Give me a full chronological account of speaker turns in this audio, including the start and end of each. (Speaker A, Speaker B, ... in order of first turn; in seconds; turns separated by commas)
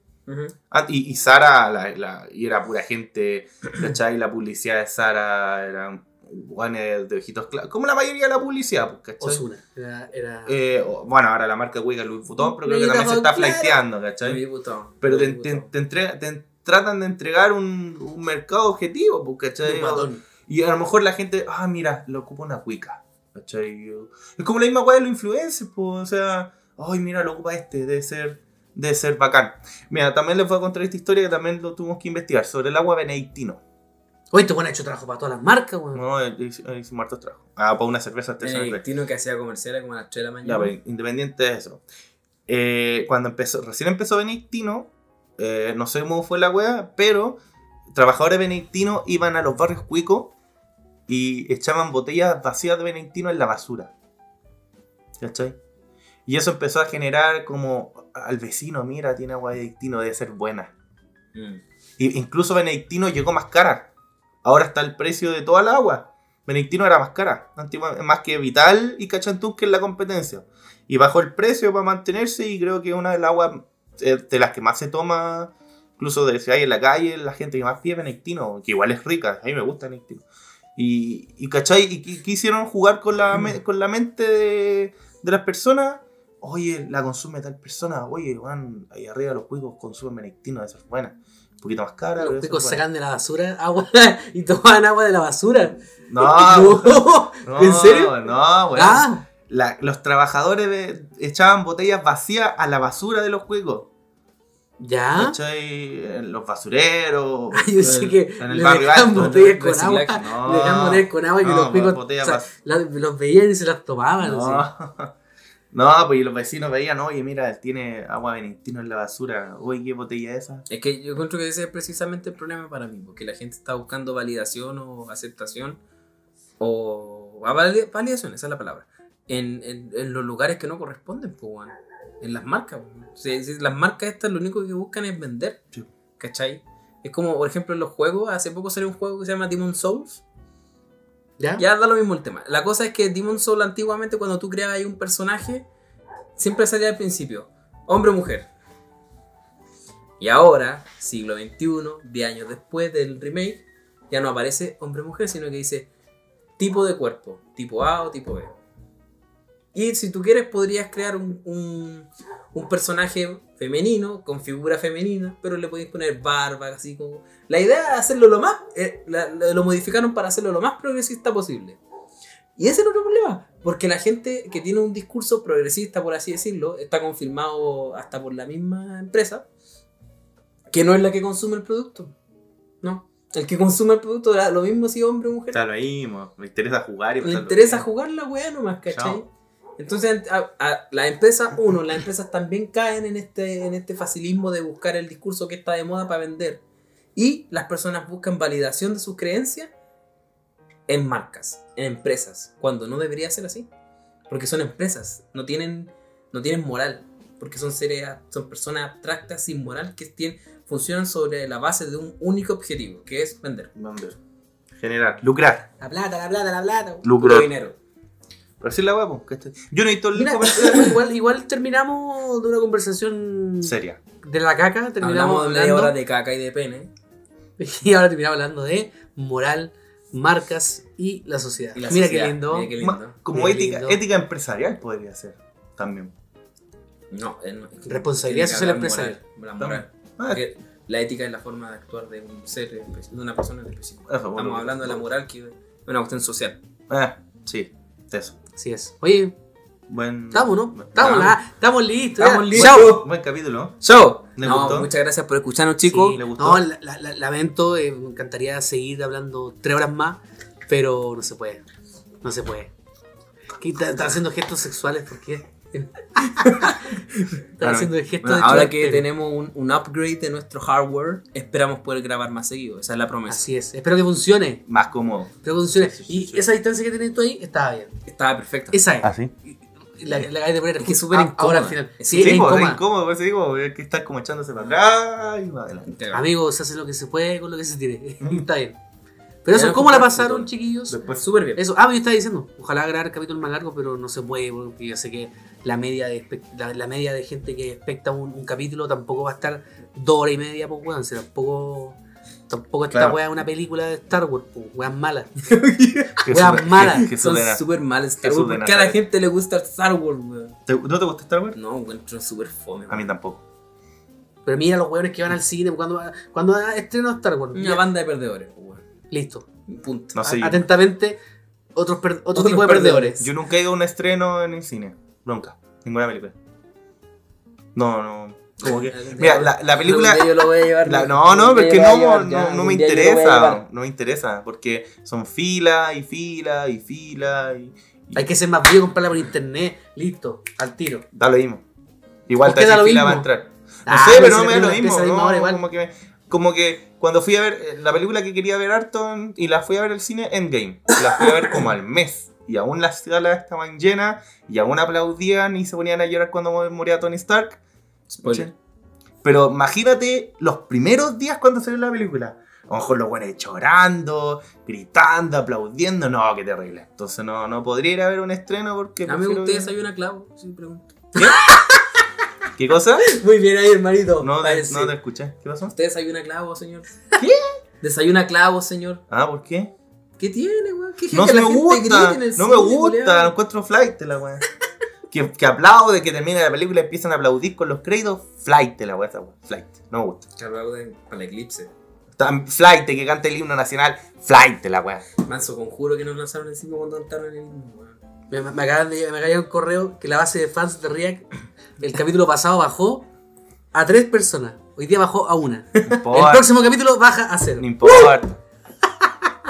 Speaker A: 0.3-0.5, Speaker B: 0.7-9.4, Speaker C: 9.2-10.5, Speaker B: 10.4-14.4, Speaker C: 12.4-13.8, Speaker A: 14.2-15.7, Speaker B: 15.0-33.6, Speaker C: 19.6-20.2, Speaker C: 34.3-36.0, Speaker B: 35.9-38.8, Speaker A: 38.4-40.7, Speaker B: 40.4-41.8, Speaker B: 42.5-47.4, Speaker B: 47.9-50.3, Speaker B: 51.1-53.9, Speaker B: 55.2-55.6, Speaker B: 56.2-60.7, Speaker A: 61.3-61.6, Speaker B: 62.0-63.9, Speaker B: 64.4-80.2, Speaker B: 80.8-92.8, Speaker C: 92.2-99.2, Speaker B: 96.0-103.9, Speaker C: 104.8-105.4, Speaker B: 105.2-109.5, Speaker C: 107.5-114.7, Speaker A: 107.8-108.2, Speaker A: 109.1-110.2, Speaker B: 110.1-112.5, Speaker B: 114.2-115.1, Speaker B: 115.7-120.6, Speaker A: 120.7-125.8, Speaker A: 126.6-135.6, Speaker A: 136.2-140.2, Speaker A: 141.6-145.7, Speaker A: 146.4-148.5, Speaker A: 150.2-155.9, Speaker A: 156.6-158.5, Speaker A: 159.7-171.8, Speaker A: 172.6-179.4, Speaker A: 180.7-182.1, Speaker A: 182.8-185.6, Speaker B: 185.5-187.8, Speaker A: 187.2-189.3, Speaker B: 188.9-189.2, Speaker A: 189.8-196.6, Speaker A: 197.2-199.7, Speaker A: 200.9-203.7, Speaker A: 204.3-213.7, Speaker B: 213.7-214.2, Speaker B: 214.8-215.7, Speaker C: 215.8-217.1, Speaker B: 217.0-217.5, Speaker A: 217.2-217.8, Speaker B: 218.6-220.9, Speaker C: 220.1-225.9, Speaker B: 223.6-224.0, Speaker A: 225.0-226.9, Speaker C: 227.6-232.7, Speaker A: 231.7-233.2, Speaker B: 232.8-236.1, Speaker C: 233.3-234.0, Speaker A: 237.1-246.6, Speaker C: 237.9-239.2, Speaker B: 239.6-240.4, Speaker B: 244.1-245.0, Speaker B: 246.9-248.4, Speaker C: 248.6-249.3, Speaker B: 249.9-251.3, Speaker C: 250.3-253.0, Speaker A: 251.0-251.4, Speaker A: 252.2-253.1, Speaker B: 252.5-253.8, Speaker A: 253.8-256.2, Speaker B: 254.3-254.9, Speaker C: 255.8-261.6, Speaker B: 256.1-256.6, Speaker C: 262.2-262.7, Speaker C: 263.5-267.0, Speaker C: 267.6-269.1, Speaker B: 267.6-267.9, Speaker A: 268.2-273.5, Speaker C: 273.3-274.6, Speaker B: 274.7-276.4, Speaker C: 275.4-277.9, Speaker A: 278.1-278.8, Speaker C: 278.7-282.8, Speaker B: 279.0-279.3, Speaker A: 280.8-282.5, Speaker B: 282.1-285.9, Speaker A: 285.9-286.2, Speaker C: 286.1-288.8, Speaker C: 289.4-291.0, Speaker A: 289.5-290.5, Speaker B: 290.9-291.2, Speaker A: 291.0-291.6, Speaker C: 291.6-305.4, Speaker B: 302.9-303.2, Speaker A: 305.4-310.6, Speaker B: 306.2-307.6, Speaker C: 306.3-307.1, Speaker B: 308.2-309.0, Speaker B: 310.7-311.6, Speaker A: 311.5-313.1, Speaker B: 312.9-313.4, Speaker C: 314.4-317.8, Speaker A: 317.5-318.8, Speaker C: 319.1-319.4, Speaker A: 319.7-320.1, Speaker B: 320.1-320.7, Speaker C: 320.2-321.2, Speaker C: 321.8-323.3, Speaker A: 322.3-323.2, Speaker B: 323.2-326.3, Speaker B: 327.7-338.3, Speaker A: 328.6-333.6, Speaker C: 338.1-341.1, Speaker B: 341.1-341.6, Speaker B: 342.3-357.6, Speaker C: 342.4-343.3, Speaker C: 343.9-345.6, Speaker A: 358.1-358.5, Speaker B: 358.2-358.5, Speaker B: 359.2-369.7, Speaker A: 369.1-370.9, Speaker C: 371.1-371.9, Speaker B: 372.6-373.1, Speaker C: 373.0-374.9, Speaker B: 374.2-375.7, Speaker A: 375.7-379.0, Speaker B: 379.1-379.7, Speaker A: 380.2-383.3, Speaker B: 381.1-384.4, Speaker B: 385.1-390.2, Speaker A: 390.4-391.7, Speaker B: 392.1-395.1, Speaker A: 395.2-398.0, Speaker C: 398.3-403.1, Speaker C: 403.7-408.1, Speaker B: 405.9-406.5, Speaker B: 407.6-408.4, Speaker C: 409.0-409.3